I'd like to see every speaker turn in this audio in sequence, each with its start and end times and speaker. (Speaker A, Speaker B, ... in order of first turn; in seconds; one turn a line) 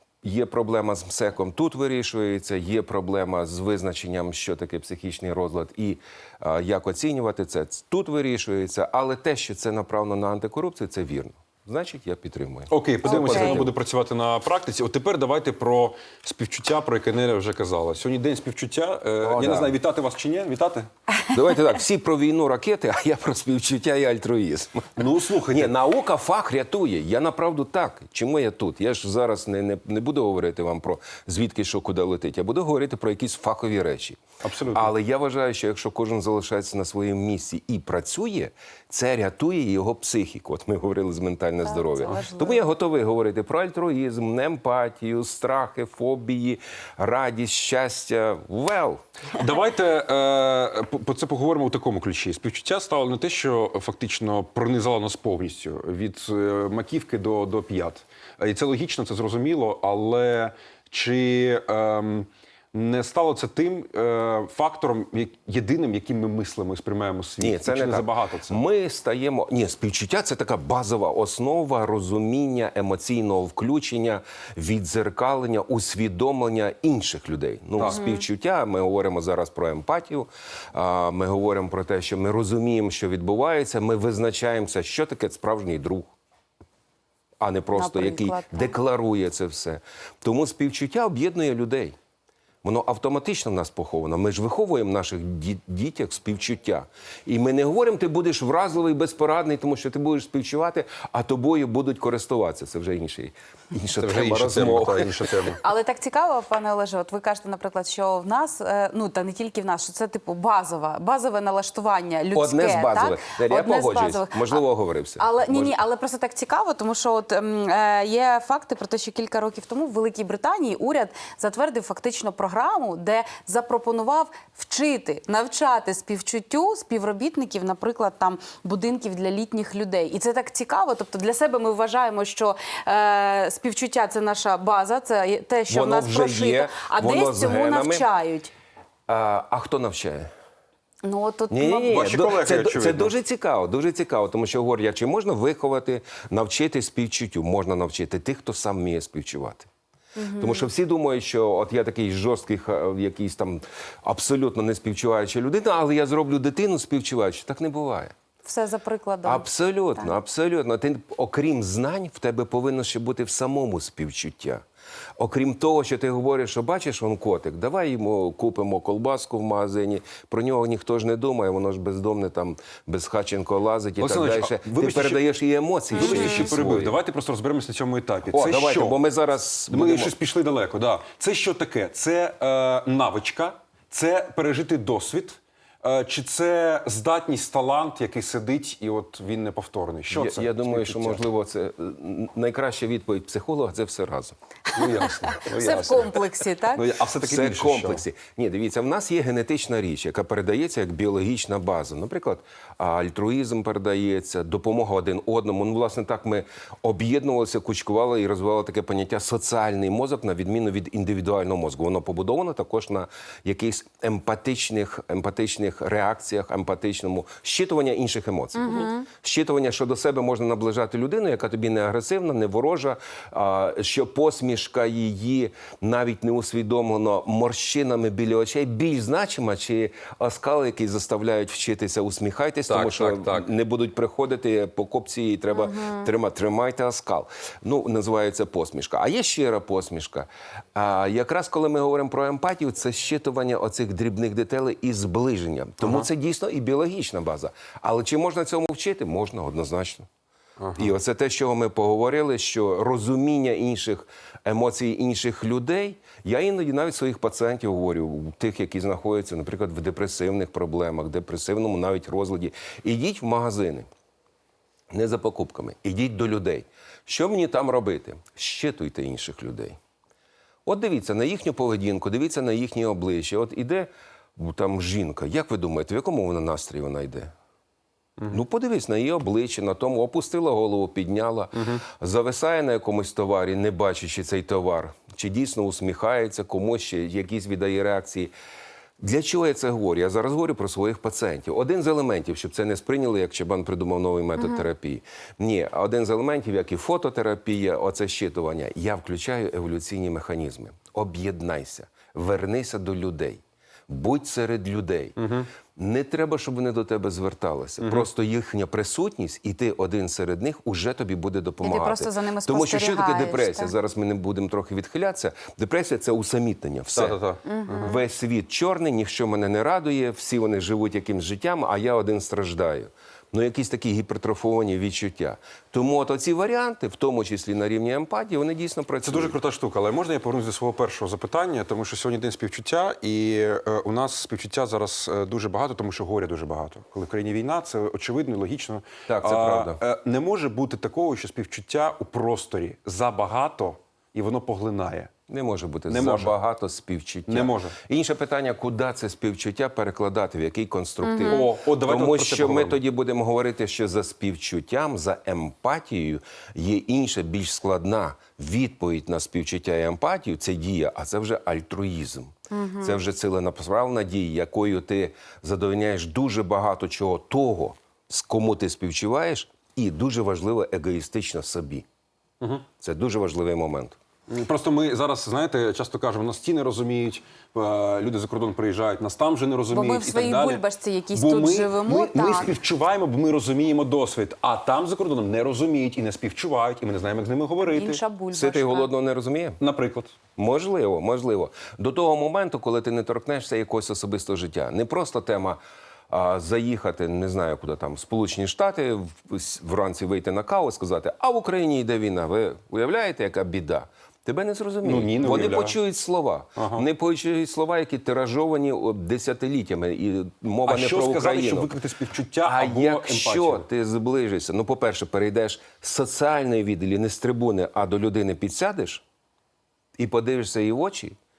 Speaker A: 0.2-13.7
Speaker B: 12.7-20.9
Speaker C: 13.1-13.6
Speaker A: 19.2-19.7
Speaker A: 21.3-34.2
Speaker B: 25.0-25.7
Speaker B: 34.4-34.9
Speaker A: 34.7-49.0
Speaker C: 41.6-42.7
Speaker B: 49.4-68.6
Speaker A: 67.4-86.1
Speaker B: 77.8-78.0
Speaker C: 77.9-78.2
Speaker A: 87.4-92.0
Speaker C: 87.7-88.8
Speaker A: 92.6-105.1
Speaker B: 104.0-105.6
Speaker C: 105.6-114.6
Speaker A: 112.3-115.8
Speaker C: 115.2-138.5
Speaker A: 135.7-138.1
Speaker A: 139.1-140.3
Speaker C: 141.0-142.0
Speaker A: 141.5-149.7
Speaker B: 141.9-143.1
Speaker C: 150.2-150.7
Speaker A: 150.4-158.1
Speaker C: 158.4-160.1
Speaker A: 159.2-164.6
Speaker A: 165.2-177.0
Speaker B: 174.0-175.2
Speaker B: 175.9-179.0
Speaker C: 176.0-176.5
Speaker A: 178.3-180.2
Speaker B: 179.7-191.2
Speaker A: 190.1-194.4
Speaker B: 194.7-196.2
Speaker C: 194.8-196.8
Speaker B: 196.7-198.0
Speaker A: 197.2-250.1
Speaker C: 218.6-219.1
Speaker B: 232.7-233.5
Speaker C: 235.6-236.1
Speaker B: 245.8-246.1
Speaker B: 250.6-250.9
Speaker A: 250.8-263.9
Speaker A: 264.9-269.8
Speaker A: 270.7-277.3
Speaker A: 278.3-288.3
Speaker A: 289.0-305.2
Speaker C: 294.4-294.6
Speaker B: 305.2-305.5
Speaker A: 305.8-317.2
Speaker B: 307.8-308.1
Speaker C: 311.6-313.7
Speaker B: 316.9-317.9
Speaker C: 317.4-318.0
Speaker A: 317.8-329.4
Speaker B: 329.1-345.1
Speaker A: 339.1-339.8
Speaker A: 345.3-371.9
Speaker B: 345.9-346.4
Speaker B: 347.3-347.8
Speaker C: 351.0-351.5
Speaker B: 351.2-352.8
Speaker C: 362.5-363.0
Speaker B: 372.4-372.7
Speaker A: 372.8-374.0
Speaker B: 374.3-380.6
Speaker C: 379.7-382.6
Speaker B: 381.1-388.0
Speaker C: 387.6-388.9
Speaker A: 388.3-389.6
Speaker B: 389.6-390.1
Speaker A: 390.4-411.7
Speaker B: 404.8-405.8
Speaker B: 406.6-406.8
Speaker B: 410.7-413.7
Speaker A: 412.4-419.0
Speaker A: 420.0-421.2